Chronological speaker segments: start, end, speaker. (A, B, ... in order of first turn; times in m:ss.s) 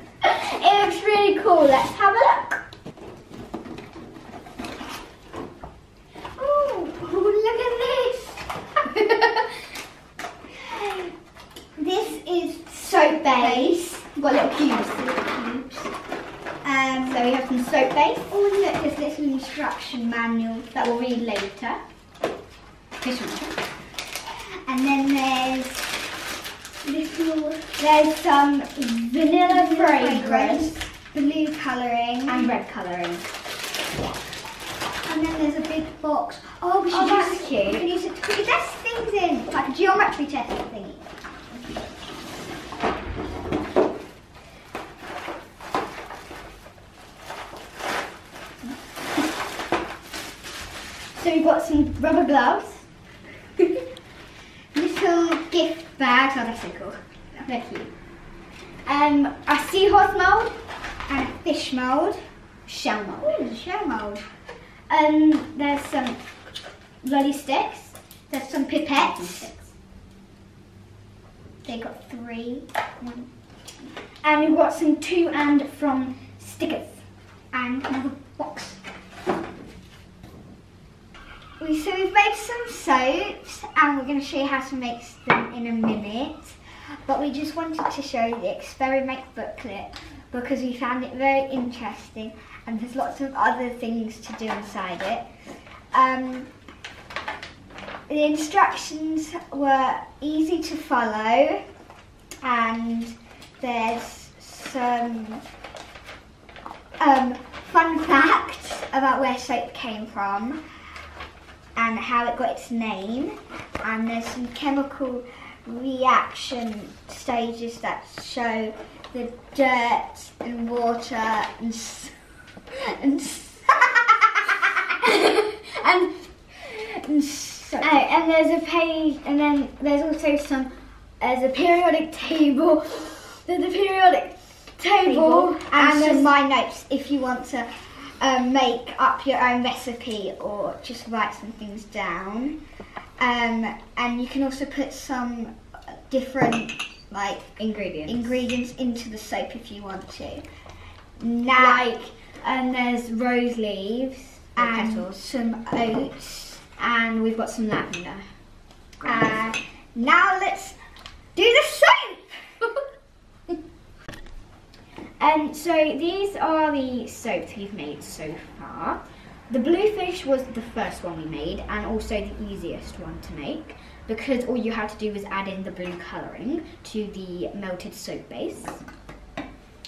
0:00.2-0:02.6 A
0:06.4-0:08.4 B
0:08.9-0:09.4 A
0:11.8-0:13.9 B
0:12.7-0:15.9 A
0:16.6-0:17.3 B
0:17.0-0:18.3 A
0:18.3-0:20.8 B
0:20.7-0:21.8 A
0:23.0-0:23.6 A
0:24.6-0:25.9 B
0:26.8-0:27.8 B
0:27.7-0:30.8 A
0:29.3-0:32.6 B
0:32.2-0:33.2 A
0:35.0-0:41.1 B
0:36.9-0:37.9 A
0:51.1-0:52.9 A
0:54.7-0:57.0 B
0:56.0-0:56.3 A
0:57.4-0:57.9 A
0:58.8-1:00.6 A
1:01.1-1:02.2 B
1:02.6-1:03.5 A
1:03.2-1:04.2 B
1:04.9-1:06.2 A
1:07.0-1:09.7 A
1:08.8-1:09.5 B
1:11.6-1:13.3 B
1:14.2-1:17.0 A
1:17.5-1:18.8 B
1:21.6-1:35.2 B
1:35.9-1:36.5 B
1:38.1-1:41.6 B
1:42.4-1:45.4 B
1:47.0-1:50.6 B
1:51.8-2:02.1 B
2:03.0-2:03.6 B
2:04.9-2:06.2 A
2:07.0-2:08.0 B
2:07.7-2:16.3 A
2:15.0-2:22.6 B
2:23.2-2:27.5 B
2:27.6-2:28.3 A
2:28.1-2:30.4 B
2:31.2-2:31.8 B
2:31.6-2:35.6 A
2:34.6-2:36.6 B
2:36.6-2:38.2 A
2:39.0-2:39.3 A
2:39.0-2:40.8 B
2:41.4-2:42.4 B
2:45.2-2:58.8 A